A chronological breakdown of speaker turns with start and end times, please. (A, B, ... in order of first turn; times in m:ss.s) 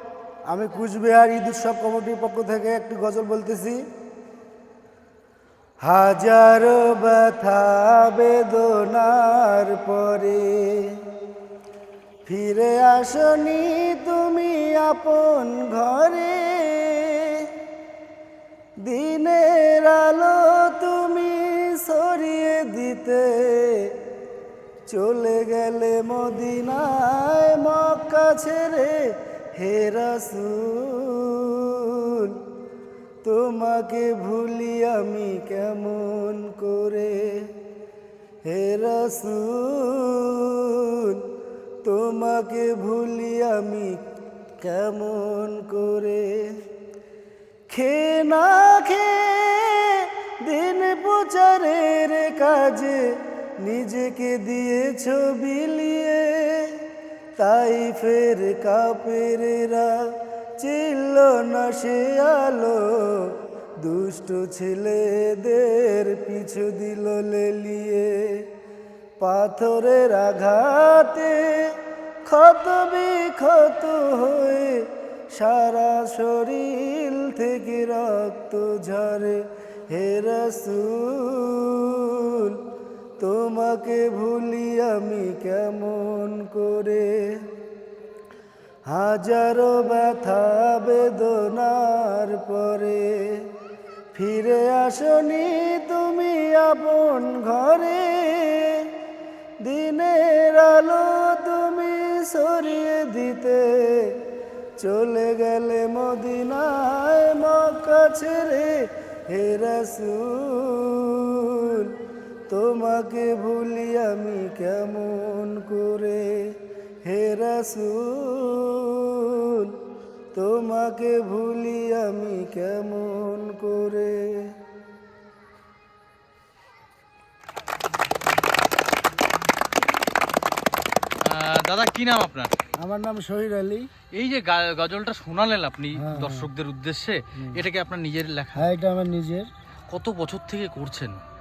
0:00.5-0:03.8 A
0:05.8-0:11.0 A
0:12.2-0:17.5 A
0:18.8-0:23.9 A
0:24.9-0:32.4 A
0:33.2-0:37.5 A
0:38.4-0:41.2 A
0:41.8-0:44.0 A
0:44.6-0:46.6 A
0:47.7-0:56.8 A
0:57.4-1:00.0 A
1:00.6-1:08.4 A
1:09.2-1:22.6 A
1:23.2-1:27.4 A
1:28.9-1:33.4 A
1:34.1-1:38.9 A
1:39.6-1:44.1 A
1:44.8-1:51.9 A
1:52.5-1:59.7 A
2:00.3-2:04.5 A
2:11.2-2:12.5 B
2:12.8-2:13.9 A
2:14.1-2:18.7 B
2:15.9-2:16.5 A
2:18.6-2:19.5 A
2:19.9-2:21.2 B